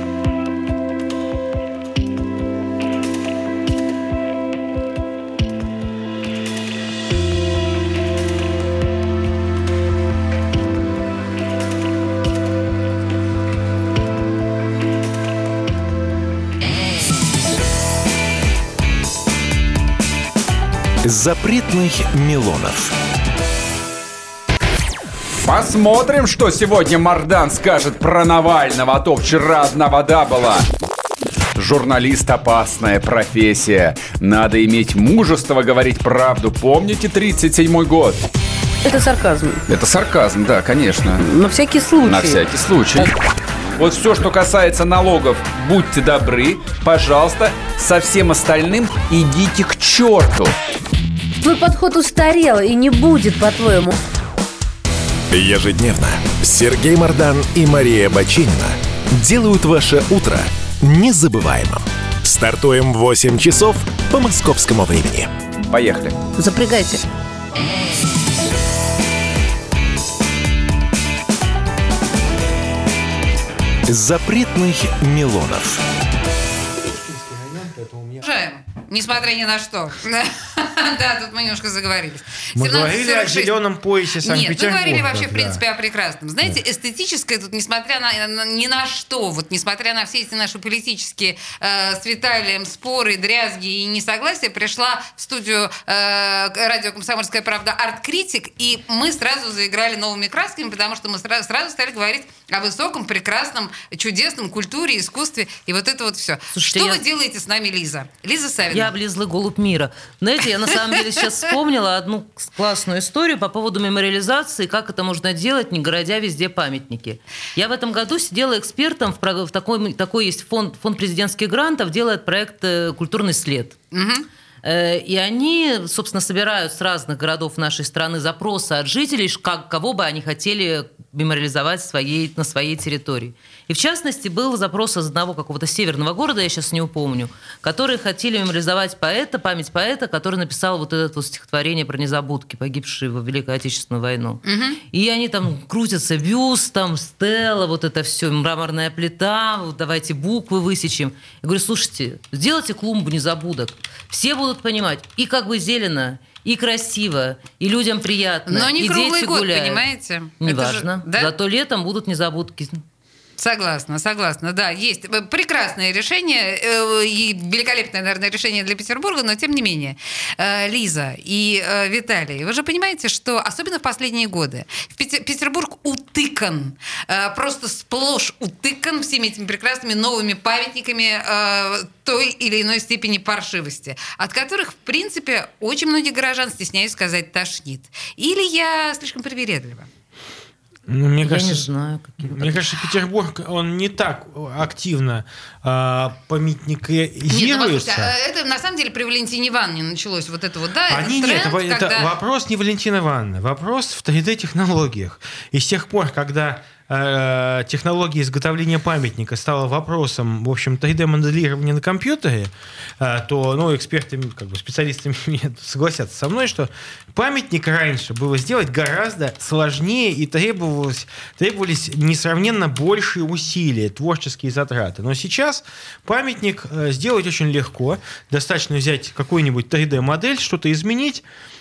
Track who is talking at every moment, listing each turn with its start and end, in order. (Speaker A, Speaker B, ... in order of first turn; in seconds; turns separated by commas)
Speaker A: 21.0-22.9, Speaker B: 25.4-30.6, Speaker B: 31.6-38.2, Speaker C: 38.8-39.6, Speaker B: 39.7-41.3, Speaker C: 41.2-42.4, Speaker B: 42.0-43.1, Speaker B: 43.8-50.5, Speaker C: 51.4-54.0, Speaker A: 55.3-65.3, Speaker B: 65.7-66.2, Speaker C: 66.3-67.0, Speaker A: 73.9-75.8, Speaker D: 76.7-78.2, Speaker E: 78.2-83.5, Speaker D: 82.5-85.6, Speaker E: 84.2-108.9, Speaker F: 106.5-107.0, Speaker F: 108.7-123.8, Speaker E: 110.7-111.4, Speaker E: 123.9-124.3, Speaker F: 124.6-159.8, Speaker E: 144.4-144.8, Speaker E: 158.5-161.3, Speaker F: 160.4-162.8, Speaker E: 163.4-189.9, Speaker D: 190.9-191.7, Speaker F: 191.2-192.7, Speaker D: 192.2-198.1, Speaker E: 197.3-202.1, Speaker D: 200.9-231.2